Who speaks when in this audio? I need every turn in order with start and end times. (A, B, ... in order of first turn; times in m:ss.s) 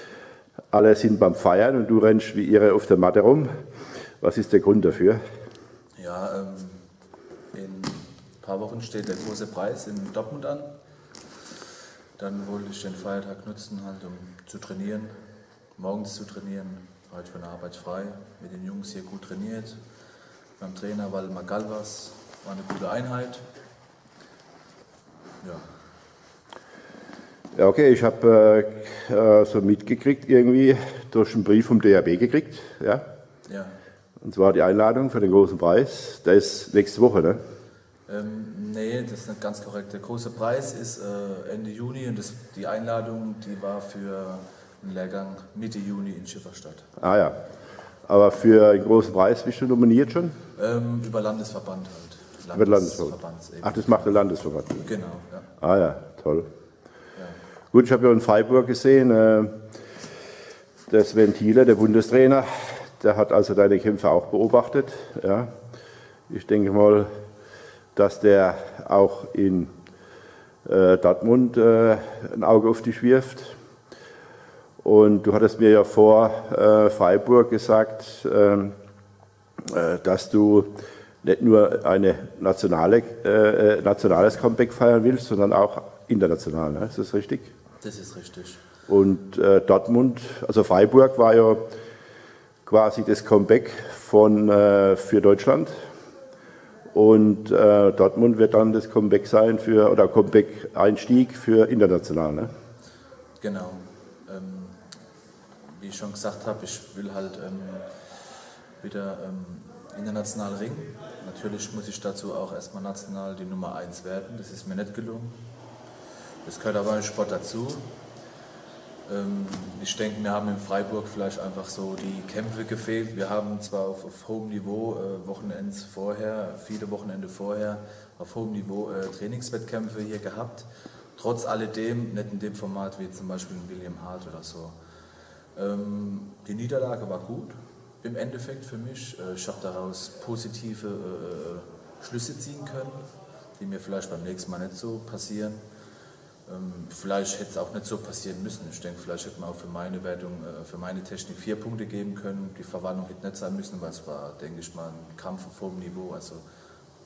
0:00.7-0:03.5 A
0:04.2-0:05.2 A
0:06.0-0:06.8 B
0:07.5-0:10.7 B
0:12.2-0:15.2 B
0:15.8-0:19.8 B
0:20.6-0:23.4 B
0:25.4-0:25.7 B
0:27.5-0:33.0 A
0:33.4-0:33.8 B
0:34.2-0:37.4 A
0:38.1-0:46.9 B
0:47.0-0:47.4 A
0:48.1-0:50.3 A
0:50.6-0:54.2 B
0:52.5-0:54.8 A
0:54.8-0:55.5 B
0:55.6-0:56.5 A
0:57.7-0:59.6 A
1:00.9-1:05.5 A
1:06.3-1:07.1 A
1:07.9-1:09.7 A
1:10.6-1:13.6 A
1:14.8-1:18.7 A
1:19.6-1:20.7 A
1:21.2-1:27.5 A
1:27.8-1:28.6 B
1:28.9-1:31.6 A
1:32.6-1:35.7 A
1:36.9-1:42.5 A
1:43.4-1:44.8 B
1:45.7-1:48.0 B
1:48.8-1:55.4 B
1:56.4-1:57.8 B
1:59.0-2:14.8 B
2:15.5-2:23.0 B
2:23.6-2:25.6 B
2:26.4-2:36.4 B